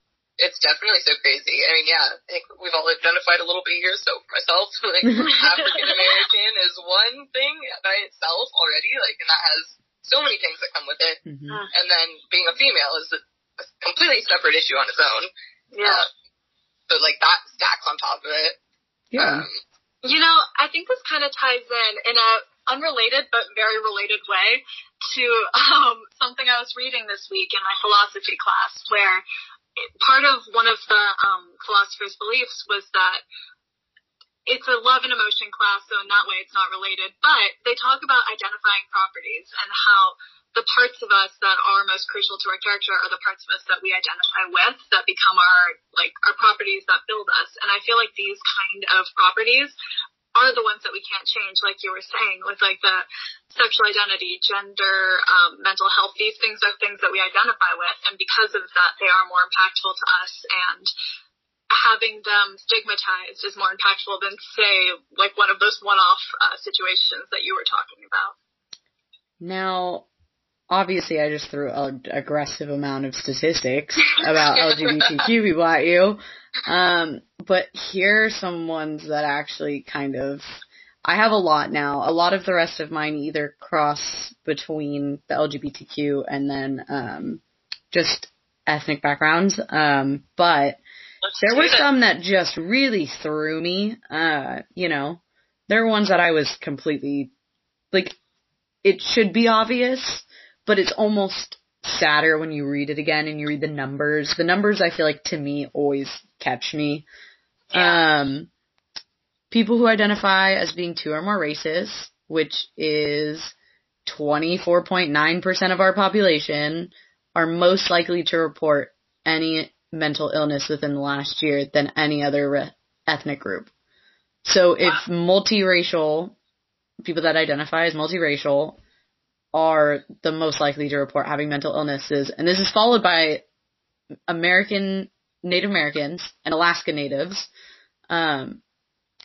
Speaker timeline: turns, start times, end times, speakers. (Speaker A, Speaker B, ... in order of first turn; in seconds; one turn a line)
Speaker A: 0.4-16.1
Speaker B: 5.0-5.4
Speaker C: 5.3-6.2
Speaker B: 11.3-11.7
Speaker C: 15.7-16.0
Speaker A: 16.9-18.6
Speaker B: 19.1-19.5
Speaker A: 19.2-19.6
Speaker C: 20.0-29.2
Speaker C: 29.8-33.2
Speaker C: 34.5-49.8
Speaker C: 50.4-60.9
Speaker C: 61.7-68.3
Speaker B: 69.4-70.1
Speaker B: 70.7-87.4
Speaker A: 74.7-75.3
Speaker B: 87.9-90.8
Speaker B: 91.4-97.3
Speaker C: 91.5-91.8
Speaker B: 98.8-107.1
Speaker B: 107.7-108.5
Speaker B: 109.5-113.5
Speaker B: 114.0-123.7
Speaker B: 124.5-126.4
Speaker B: 127.0-128.8
Speaker B: 129.5-133.4
Speaker B: 134.3-137.5
Speaker B: 138.1-138.6